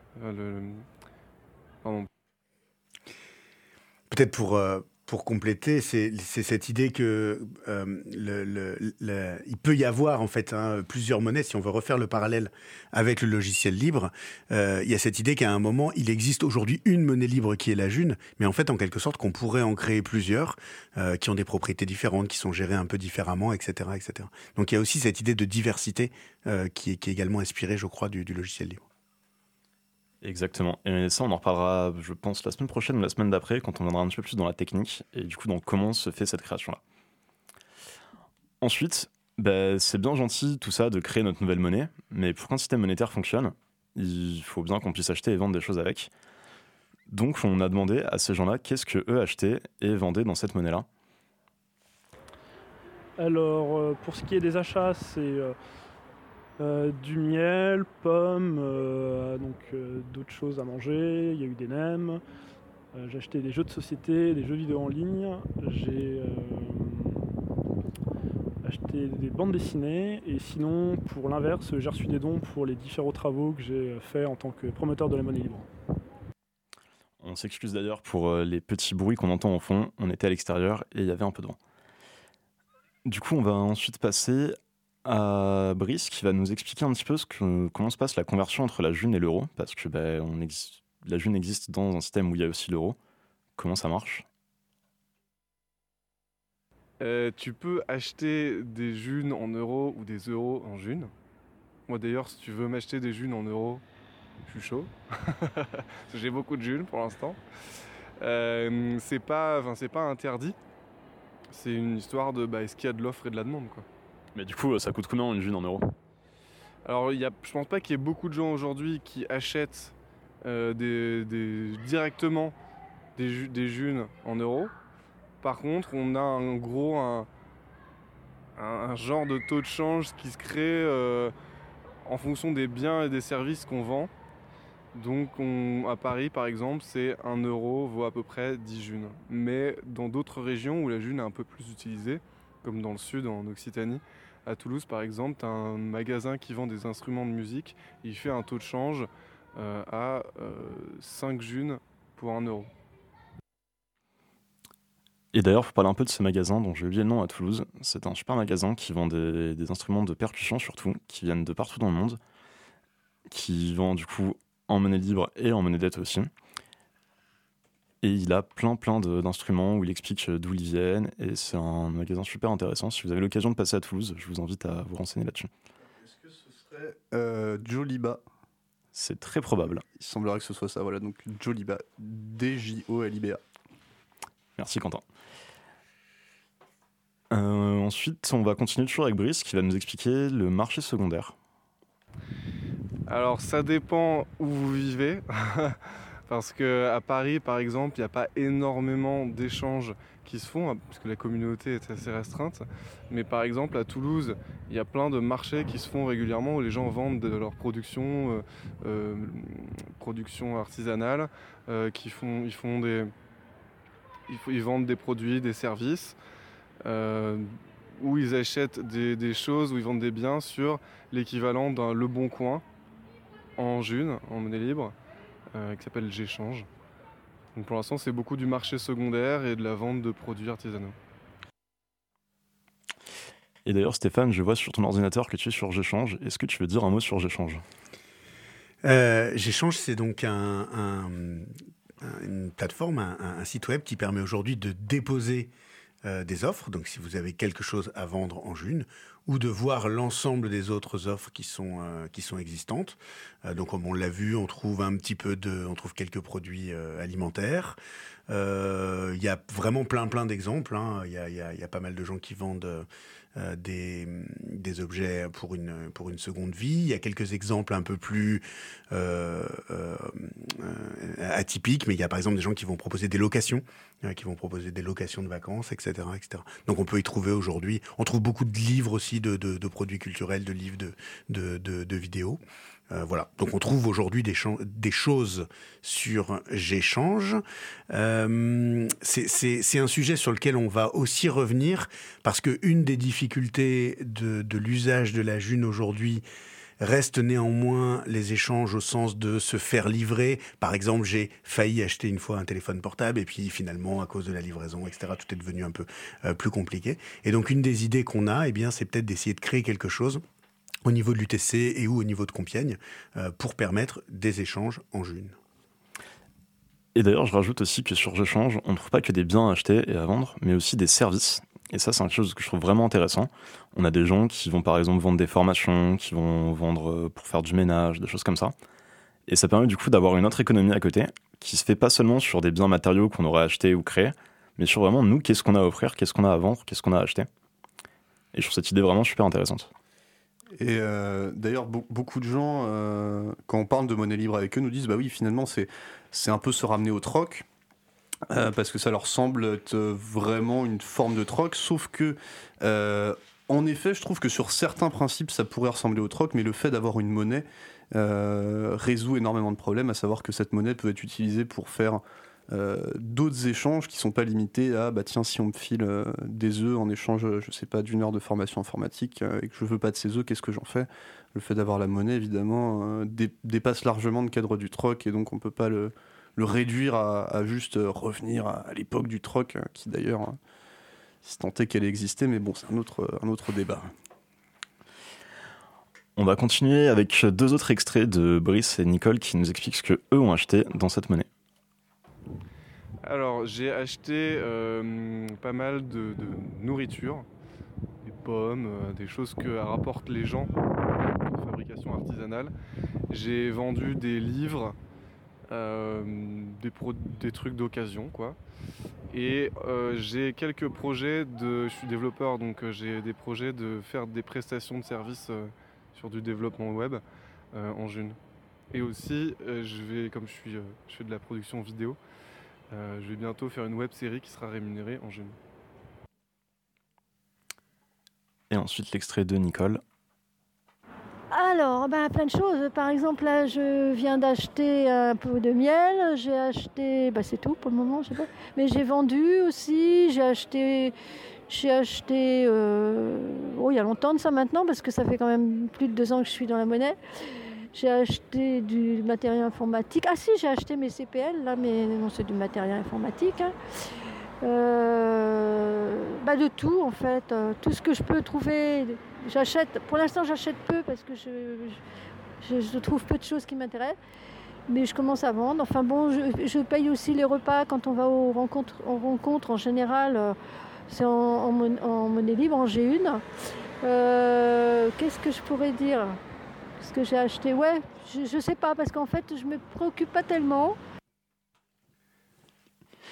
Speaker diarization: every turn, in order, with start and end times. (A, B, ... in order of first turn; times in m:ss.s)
0:00.1-0:00.9 A
0:04.1-0:28.8 B
0:30.2-0:36.8 C
0:38.6-0:46.1 C
0:47.1-0:50.8 C
0:53.2-0:55.5 D
0:56.6-1:02.2 D
1:02.9-1:07.3 D
1:08.6-1:15.7 D
1:17.2-1:21.6 C
1:23.0-1:33.0 C
1:33.6-1:34.2 C
1:37.0-1:41.1 A
1:41.9-1:43.8 A
1:44.4-1:50.6 A
1:51.5-1:53.8 A
1:54.3-1:55.9 C
1:56.8-2:02.5 A
2:03.2-2:04.7 A
2:05.4-2:07.3 A
2:08.6-2:11.3 A
2:12.0-2:14.1 A
2:14.9-2:32.7 A
2:35.3-2:42.2 C
2:43.3-2:46.3 C
2:48.0-2:55.5 C
2:56.0-2:58.2 E
2:58.9-2:59.8 C
2:59.9-3:03.4 E
3:04.6-3:05.0 C
3:07.3-3:11.3 C
3:13.1-3:33.1 A
3:34.3-3:36.2 A
3:36.8-3:42.6 A
3:43.6-3:44.9 A
3:45.5-3:46.7 A
3:47.5-3:51.0 A
3:53.6-3:57.6 C
3:58.8-4:05.5 B
4:06.0-4:17.8 B
4:18.3-4:56.2 B
4:56.8-5:10.2 B
5:10.8-5:15.4 B
5:16.9-5:28.5 C
5:29.3-5:37.3 C
5:38.3-5:39.7 C
5:40.6-5:47.4 E
5:48.3-6:20.4 E
6:21.2-6:23.9 E
6:26.2-6:31.3 C
6:33.0-6:37.3 A
6:38.0-6:40.5 A
6:41.1-6:42.5 A
6:43.1-6:44.8 A
6:45.5-6:48.4 A
6:49.1-6:58.2 A
6:58.7-7:02.0 A
7:02.7-7:05.4 A
7:08.5-7:09.8 C
7:11.3-7:20.9 F
7:21.5-7:27.0 F
7:27.7-7:33.5 F
7:34.4-7:41.8 F
7:42.4-7:44.0 F
7:44.7-7:50.3 F
7:50.9-7:53.2 F
7:53.8-7:56.2 F
7:56.8-8:00.8 F